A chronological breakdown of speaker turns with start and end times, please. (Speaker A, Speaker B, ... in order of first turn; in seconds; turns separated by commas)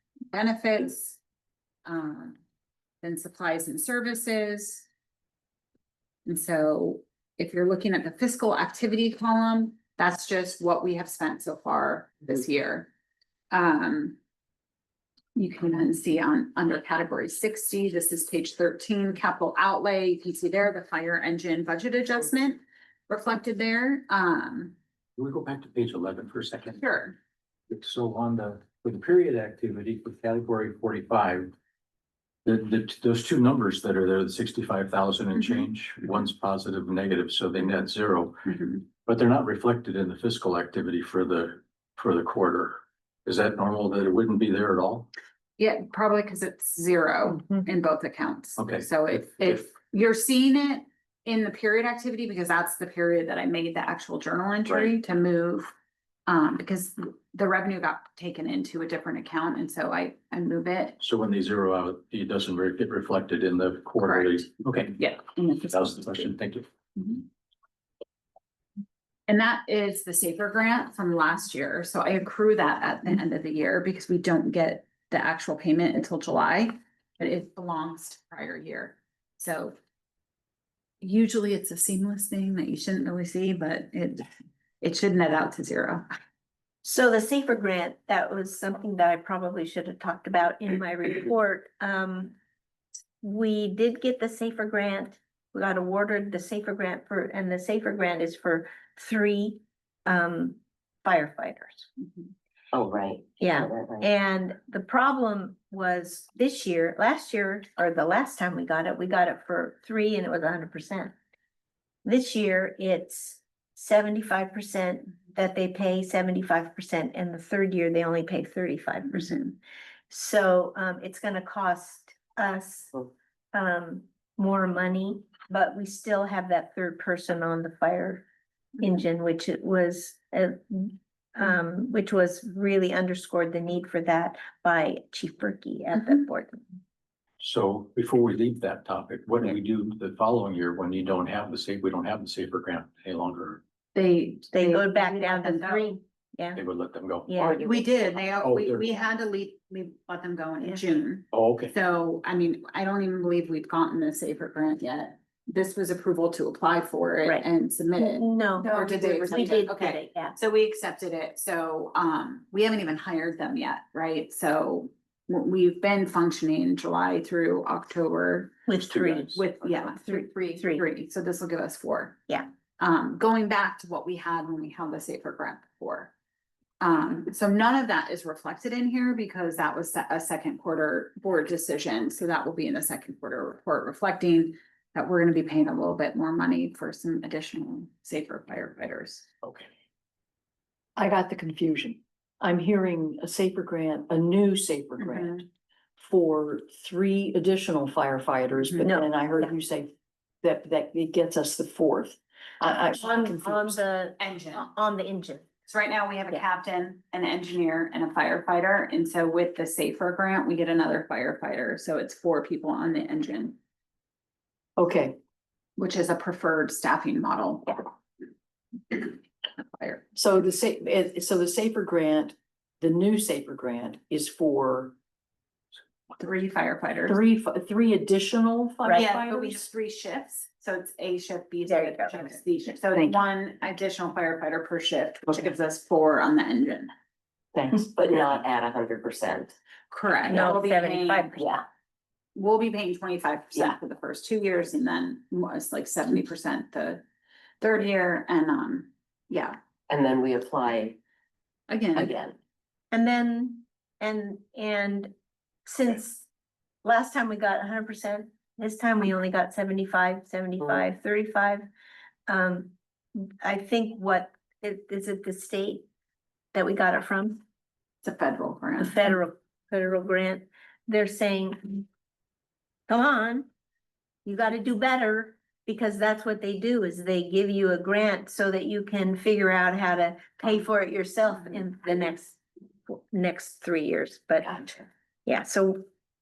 Speaker A: 0.3-1.2, Speaker A: 1.8-2.4, Speaker A: 3.0-4.8, Speaker A: 6.2-12.9, Speaker A: 13.5-14.2, Speaker A: 15.3-24.7, Speaker B: 25.2-26.8, Speaker A: 26.8-27.1, Speaker B: 27.7-31.5, Speaker B: 32.4-45.1, Speaker A: 38.5-38.8, Speaker A: 45.6-55.7, Speaker B: 48.6-49.6, Speaker A: 56.3-61.0, Speaker B: 61.0-65.1, Speaker A: 64.0-64.4, Speaker A: 65.0-66.1, Speaker B: 65.6-67.1, Speaker A: 69.3-79.8, Speaker A: 81.0-84.2, Speaker A: 84.8-86.0, Speaker C: 86.8-92.3, Speaker C: 93.2-101.9, Speaker D: 102.7-104.0, Speaker C: 103.4-111.1, Speaker C: 112.0-123.0, Speaker C: 123.5-128.2, Speaker C: 128.8-136.6, Speaker B: 137.4-143.6, Speaker A: 143.9-146.0, Speaker C: 144.5-146.6, Speaker B: 146.5-147.3, Speaker C: 147.3-147.6, Speaker D: 147.4-148.3, Speaker A: 147.6-172.2, Speaker B: 148.4-148.8, Speaker B: 151.3-151.7, Speaker C: 158.0-160.4, Speaker C: 168.7-170.8, Speaker A: 172.8-176.1, Speaker A: 176.8-189.2, Speaker E: 190.9-203.8, Speaker A: 195.0-195.4, Speaker C: 198.8-199.5, Speaker C: 203.0-205.4, Speaker A: 204.2-204.7, Speaker A: 205.7-213.6, Speaker E: 214.8-215.2, Speaker A: 215.8-217.8, Speaker A: 218.9-220.0, Speaker E: 220.1-224.9, Speaker A: 226.2-227.2, Speaker E: 227.1-229.6, Speaker A: 228.9-236.9, Speaker C: 231.7-232.3, Speaker E: 237.5-237.9, Speaker D: 237.7-239.5, Speaker A: 239.9-241.4, Speaker C: 240.3-241.6, Speaker A: 242.3-247.0, Speaker A: 247.6-249.6, Speaker D: 249.9-251.0, Speaker A: 251.7-252.1, Speaker D: 251.9-252.3, Speaker C: 252.9-255.1, Speaker C: 255.7-256.3, Speaker C: 256.8-261.7, Speaker C: 262.3-265.9, Speaker C: 266.5-267.4, Speaker A: 268.0-269.1, Speaker C: 268.8-271.9, Speaker C: 272.9-273.5, Speaker C: 274.2-285.8